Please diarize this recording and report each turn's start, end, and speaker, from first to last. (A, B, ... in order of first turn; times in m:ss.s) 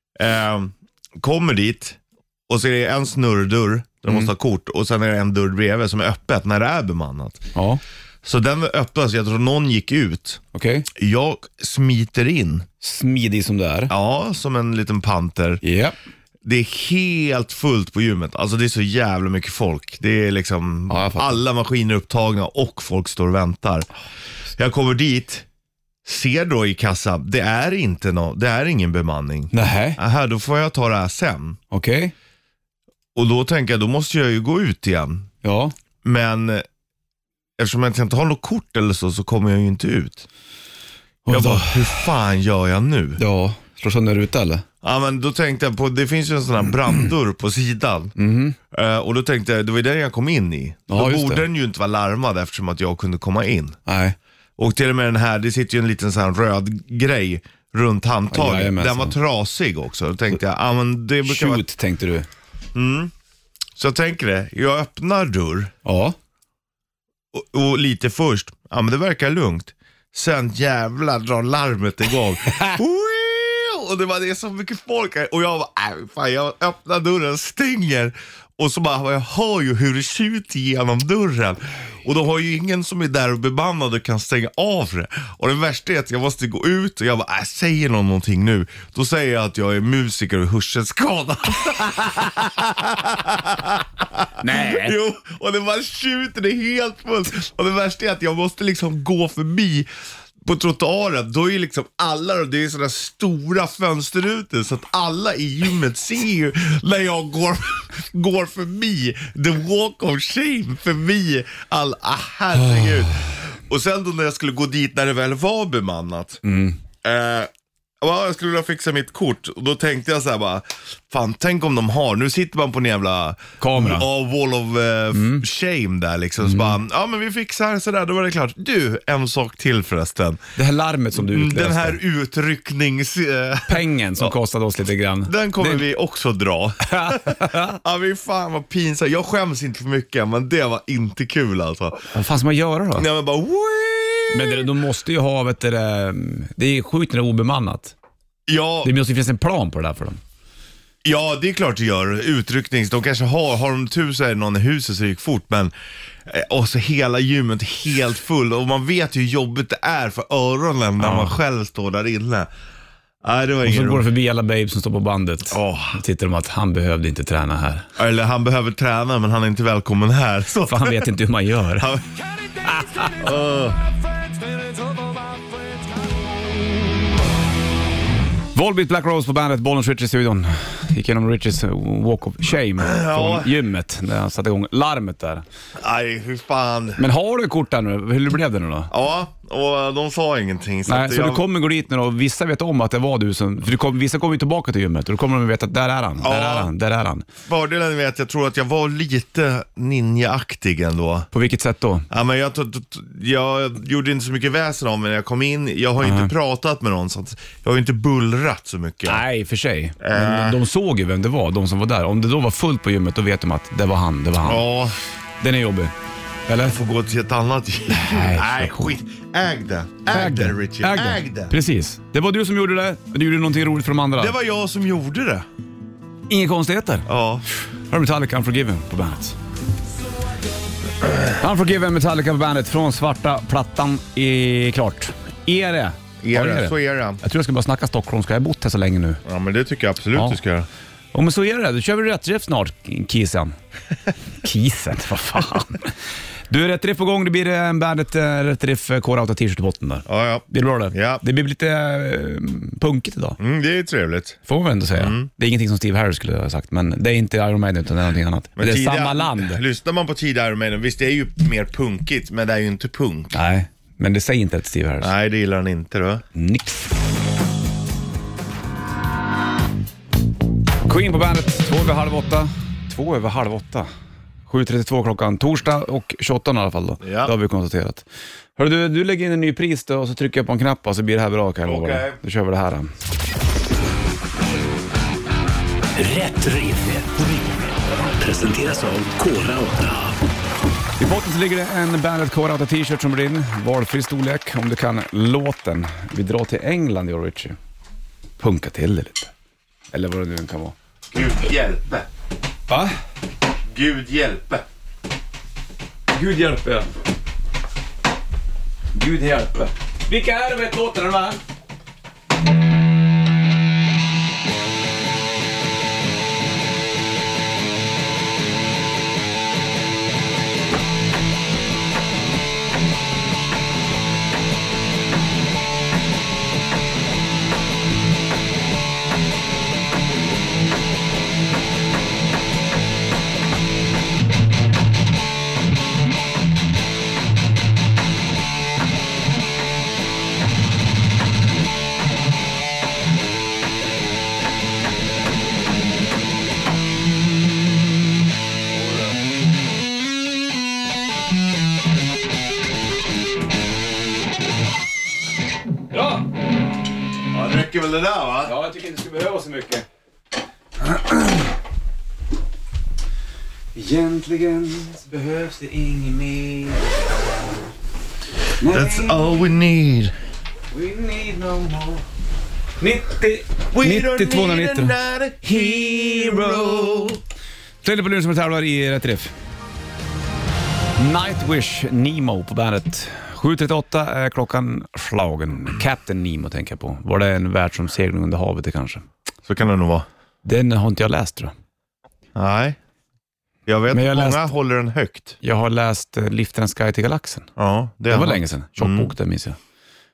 0:00.2-0:02.0 A
0:02.5-0:07.5 A
0:07.5-0:07.8 B
0:08.2-0:10.4 A
0:10.5-0:10.9 B
0:10.9-0:12.6 A
0:12.8-0:13.9 B
0:13.9-0:15.6 A
0:15.6-0:15.9 B
0:16.4-0:23.9 A
0:20.9-0:21.4 B
0:24.6-0:25.4 A
0:26.0-0:31.6 A
0:29.5-0:30.0 B
0:31.7-0:32.1 B
0:33.1-0:35.3 A
0:35.4-0:35.7 B
0:36.0-0:36.6 A
0:37.6-0:40.2 A
0:41.2-0:42.1 B
0:41.3-0:43.2 A
0:43.2-0:44.6 B
0:44.8-0:48.1 A
0:48.2-0:48.6 B
0:48.7-0:53.8 A
0:50.9-0:51.4 B
0:53.9-0:54.2 B
0:54.6-1:01.6 A
0:58.3-0:59.2 B
1:01.2-1:02.3 B
1:02.7-1:03.1 A
1:03.8-1:05.7 A
1:05.8-1:06.2 B
1:07.3-1:39.9 A
1:34.4-1:35.0 B
1:40.4-1:56.4 A
1:52.6-1:53.2 B
1:56.4-1:56.8 B
1:57.0-1:57.5 A
1:58.0-2:10.4 A
2:03.6-2:04.0 B
2:05.1-2:05.4 B
2:06.4-2:06.8 B
2:10.6-2:12.0 B
2:11.1-2:14.3 A
2:13.7-2:15.8 B
2:15.2-2:22.0 A
2:16.9-2:17.8 B
2:22.1-2:23.1 B
2:22.9-2:24.6 A
2:24.3-2:27.9 B
2:28.5-2:28.9 A
2:28.8-2:30.2 B
2:31.0-2:35.7 A
2:36.2-2:42.5 A
2:41.0-2:41.4 B
2:43.2-2:44.1 A
2:43.6-2:47.9 B
2:45.5-2:46.0 A
2:48.0-2:51.1 A
2:50.6-2:52.0 B
2:52.6-2:53.2 B
2:53.2-2:53.8 A
2:58.5-3:05.4 B
3:02.8-3:03.5 A
3:05.8-3:07.0 A
3:07.0-3:08.9 B
3:08.9-3:11.5 A
3:10.9-3:17.2 B
3:16.2-3:16.7 A
3:17.4-3:21.3 A
3:21.3-3:22.1 B
3:22.1-3:29.2 A
3:26.0-3:26.3 B
3:29.0-3:34.6 B
3:30.0-3:30.6 A
3:34.4-3:35.0 A
3:35.4-3:35.9 B
3:36.5-3:36.8 B
3:36.6-3:41.5 A
3:37.9-3:38.9 B
3:40.1-3:44.3 B
3:44.2-3:45.4 A
3:46.3-3:47.1 B
3:47.0-3:47.4 A
3:47.9-3:49.4 B
3:51.4-3:59.2 B
3:56.2-3:57.2 A
3:59.2-4:00.7 A
4:01.1-4:03.5 B
4:04.4-4:05.9 B
4:06.5-4:13.4 B
4:10.0-4:11.2 A
4:13.4-4:14.4 A
4:14.5-4:19.6 B
4:15.0-4:15.3 A
4:18.6-4:23.3 A
4:23.3-4:25.1 B
4:25.0-4:26.2 A
4:26.3-4:26.9 B
4:30.8-4:33.9 B
4:34.5-4:38.0 B
4:37.0-4:37.3 A
4:38.6-4:42.9 B
4:41.6-4:42.2 A
4:45.9-4:50.2 C
4:51.0-4:57.6 B
4:58.4-4:59.3 B
4:59.9-5:00.7 B
5:01.1-5:02.0 A
5:02.7-5:02.9 B
5:03.7-5:04.6 A
5:06.1-5:06.9 B
5:08.9-5:11.4 B
5:48.8-5:49.1 B
5:55.9-5:56.2 B
5:57.3-5:58.6 A
5:58.4-5:59.8 B
6:00.8-6:01.4 B
6:03.7-6:07.6 B
6:08.6-6:09.2 B
6:08.6-6:10.1 A
6:10.7-6:12.0 B
6:12.8-6:14.9 B
6:13.7-6:17.2 A
6:15.6-6:16.8 B
6:17.8-6:19.3 B
6:21.0-6:29.0 B
6:29.5-6:30.0 A
6:30.4-6:31.5 B
6:32.3-6:32.8 A
6:33.6-6:35.4 A
6:33.9-6:34.5 B
6:35.4-6:37.5 B
6:37.6-6:39.1 A
6:38.1-6:39.6 B